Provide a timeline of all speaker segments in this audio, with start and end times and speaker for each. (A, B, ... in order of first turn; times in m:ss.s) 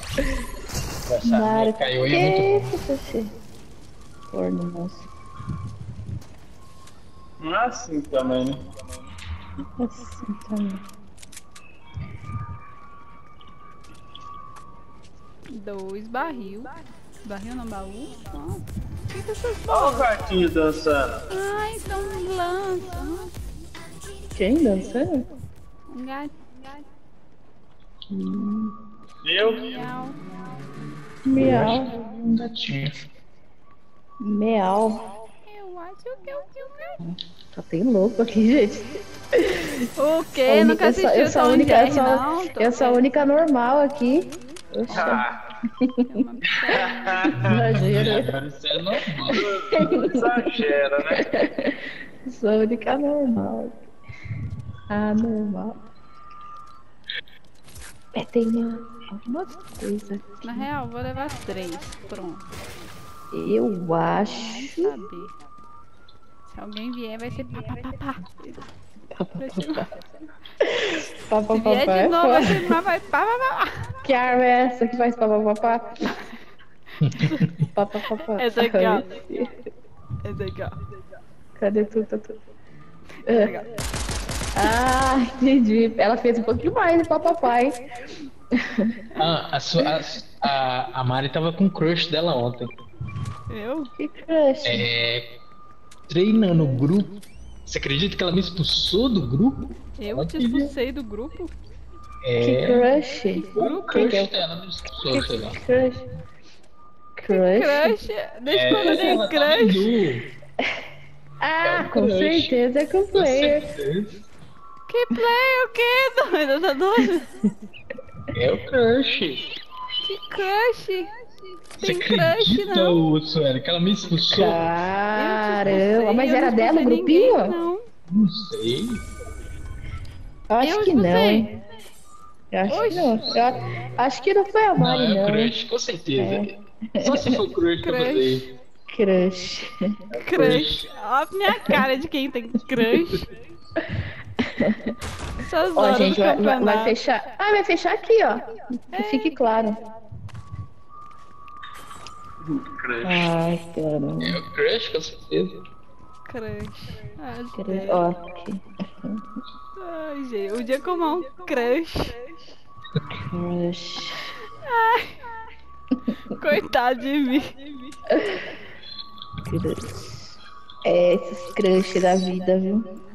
0:01.1-0:02.7 A
0:01.2-0:03.3 B
0:04.3-0:05.1 B
0:07.4-0:08.7 C
0:09.8-0:10.8 B
0:15.5-0:16.7 D
0:17.2-0:20.1 D
0:19.7-0:21.2 C
0:21.3-0:23.3 D
0:24.4-0:25.2 B
0:25.9-0:26.8 D
0:28.1-0:28.8 B
0:29.2-0:29.8 C
0:29.4-0:30.2 D
0:31.3-0:31.9 B
0:31.4-0:33.1 A
0:34.2-0:35.1 B
0:35.4-0:37.0 D
0:37.0-0:39.7 B
0:40.0-0:43.1 D
0:40.5-0:45.2 B
0:44.9-0:45.4 C
0:46.1-0:47.3 D
0:47.1-0:47.6 C
0:47.4-0:48.3 B
0:47.4-0:49.5 A
0:49.3-0:50.2 B
0:49.3-0:51.3 C
0:51.3-0:53.9 B
0:54.9-0:55.8 B
0:58.1-1:00.7 B
1:00.4-1:02.5 D
1:03.3-1:04.9 B
1:04.2-1:05.4 D
1:06.5-1:08.6 D
1:09.1-1:09.9 B
1:09.4-1:10.1 D
1:10.9-1:14.0 D
1:11.3-1:12.8 B
1:14.0-1:16.0 B
1:17.0-1:17.4 A
1:17.1-1:17.5 D
1:17.8-1:19.5 B
1:18.3-1:19.1 D
1:20.2-1:20.8 D
1:21.6-1:22.4 B
1:23.2-1:23.7 D
1:23.3-1:23.5 B
1:24.6-1:27.8 B
1:29.2-1:32.8 A
1:33.5-1:33.9 D
1:34.0-1:34.9 B
1:34.6-1:35.4 A
1:36.1-1:37.1 A
1:37.7-1:40.7 A
1:40.0-1:41.5 D
1:42.2-1:42.8 A
1:42.4-1:44.3 B
1:43.6-1:44.1 D
1:43.6-1:45.6 A
1:45.1-1:46.0 B
1:47.2-1:47.9 B
1:47.3-1:50.0 D
1:48.5-1:50.2 A
1:51.4-1:53.7 B
1:51.6-1:52.6 A
1:53.1-1:54.2 A
1:54.9-1:57.3 D
1:58.3-1:59.5 A
2:00.0-2:01.1 D
2:01.8-2:03.0 D
2:01.8-2:04.6 A
2:04.3-2:07.6 B
2:05.1-2:07.9 D
2:08.1-2:09.0 A
2:10.5-2:11.5 B
2:10.6-2:11.5 D
2:12.5-2:15.6 B
2:12.7-2:13.1 D
2:12.8-2:13.9 A
2:14.8-2:16.5 A
2:16.2-2:17.4 B
2:17.0-2:18.5 A
2:17.8-2:18.4 D
2:18.9-2:19.8 B
2:20.2-2:23.3 D
2:20.4-2:20.8 A
2:24.6-2:24.9 B
2:25.4-2:27.0 D
2:25.8-2:29.8 B
2:28.9-2:29.6 D
2:32.4-2:33.3 C
2:33.0-2:34.4 B
2:34.2-2:35.6 A
2:36.3-2:38.1 D
2:37.6-2:38.6 B
2:39.7-2:42.2 D
2:43.2-2:44.3 B
2:44.6-2:45.3 D
2:46.3-2:47.6 D
2:49.5-2:52.9 B